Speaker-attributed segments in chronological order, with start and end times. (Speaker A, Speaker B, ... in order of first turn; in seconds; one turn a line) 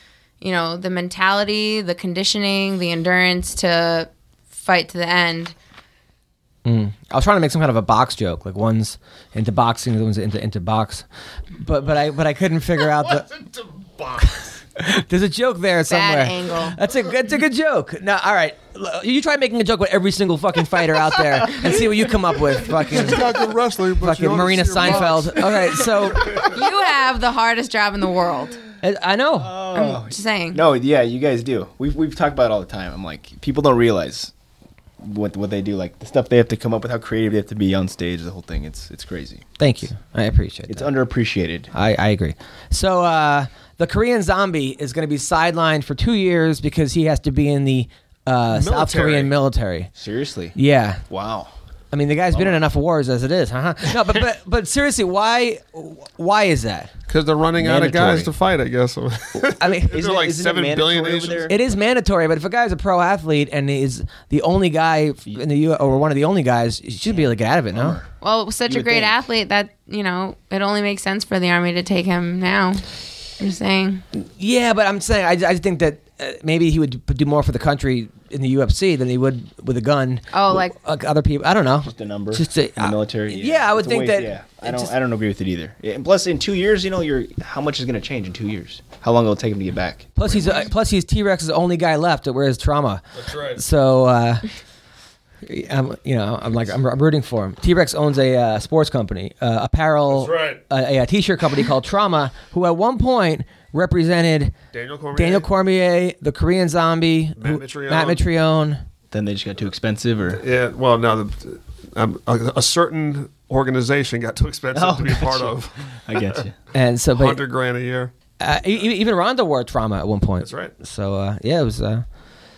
Speaker A: 0.4-5.5
Speaker B: 6.6-11.0
Speaker B: 11.6-13.3
Speaker C: 13.0-14.3
Speaker B: 14.2-23.3
Speaker A: 15.9-16.8
Speaker C: 22.9-26.4
Speaker B: 24.0-26.4
Speaker A: 26.4-28.6
Speaker B: 28.8-29.5
Speaker D: 29.4-34.3
Speaker A: 29.7-30.6
Speaker D: 35.0-39.4
Speaker B: 39.6-40.9
Speaker D: 40.7-41.7
Speaker B: 41.7-49.9
Speaker C: 48.5-49.3
Speaker D: 50.0-50.5
Speaker B: 50.5-51.1
Speaker D: 51.1-51.5
Speaker B: 51.9-56.9
Speaker D: 52.3-52.6
Speaker C: 57.1-61.5
Speaker D: 57.6-58.3
Speaker B: 59.6-60.1
Speaker D: 59.9-61.6
Speaker B: 61.5-68.0
Speaker D: 67.1-68.1
Speaker A: 68.2-72.8
Speaker D: 68.7-69.1
Speaker A: 73.4-74.0
Speaker B: 74.2-84.9
Speaker A: 80.3-80.7
Speaker D: 81.8-90.6
Speaker B: 90.2-93.0
Speaker C: 93.2-93.6
Speaker B: 93.5-94.5
Speaker B: 95.4-104.5
Speaker C: 100.1-100.6
Speaker C: 104.7-105.5
Speaker B: 105.1-108.8
Speaker C: 107.4-108.2
Speaker D: 109.1-110.4
Speaker C: 110.3-116.4
Speaker D: 114.7-116.5
Speaker B: 116.7-117.4
Speaker C: 117.1-118.1
Speaker B: 118.4-122.0
Speaker C: 120.4-120.7